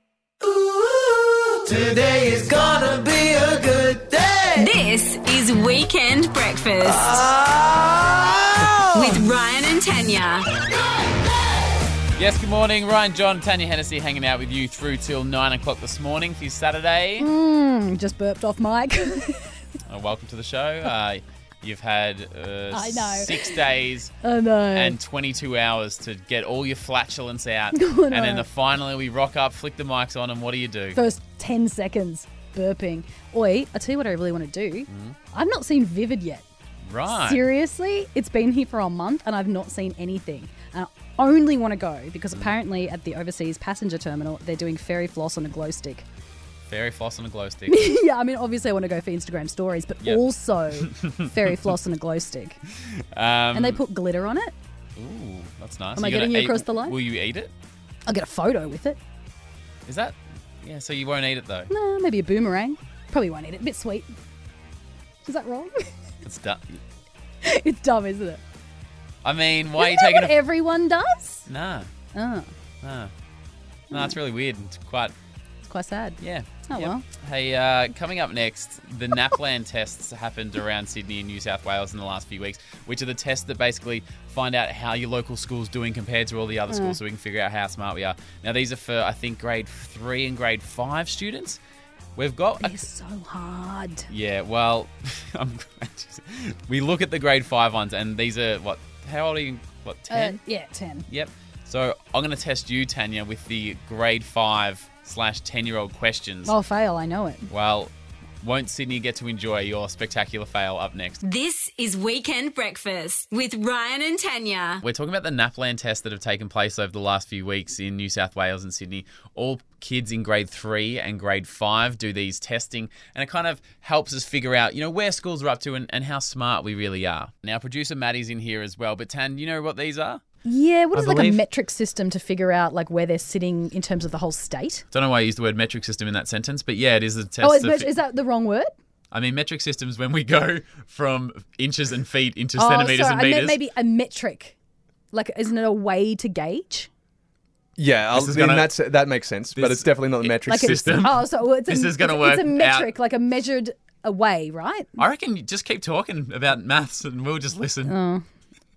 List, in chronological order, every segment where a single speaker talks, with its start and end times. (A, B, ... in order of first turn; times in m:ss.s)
0:00.4-0:04.7 A
0:04.6-0:07.2 B
0:07.0-0:09.0 A
0:08.9-0:10.5 B
0:12.2-0:17.3 C
0:17.2-0:19.6 D
0:19.9-0:24.1 C
0:22.7-0:23.6 D
0:24.2-0:25.0 D
0:24.7-0:31.0 C
0:27.7-0:28.5 D
0:31.0-0:36.4 D
0:34.9-0:35.2 C
0:36.9-0:37.4 C
0:37.1-0:46.0 D
0:46.7-0:48.0 C
0:47.7-0:52.6 D
0:50.0-0:51.5 C
0:53.1-0:53.8 C
0:53.5-0:54.5 D
0:55.0-0:57.5 C
0:56.0-0:57.0 D
0:58.1-0:59.0 D
0:59.9-1:01.7 C
1:01.7-1:04.1 D
1:05.2-1:05.9 D
1:06.2-1:06.8 C
1:07.4-1:08.4 D
1:09.2-1:10.4 C
1:09.8-1:11.5 D
1:11.5-1:11.9 C
1:12.1-1:12.5 D
1:12.8-1:13.1 C
1:13.9-1:15.1 C
1:13.9-1:14.2 D
1:15.6-1:17.0 D
1:16.2-1:31.6 C
1:26.7-1:27.0 D
1:32.2-1:32.8 C
1:32.6-1:34.1 D
1:34.1-1:40.4 C
1:40.1-1:41.1 D
1:41.1-1:46.5 C
1:46.5-1:47.5 D
1:47.5-1:51.2 C
1:51.2-1:54.8 B
1:54.8-2:10.2 C
2:10.4-2:14.8 D
2:10.9-2:11.4 C
2:14.9-2:17.9 C
2:17.4-2:18.7 D
2:19.1-2:23.6 C
2:22.6-2:24.6 D
2:25.1-2:26.9 D
2:27.8-2:31.0 E
2:28.1-2:28.7 C
2:29.6-2:32.9 C
2:30.5-2:34.9 D
2:35.0-2:37.9 C
2:37.9-2:38.2 D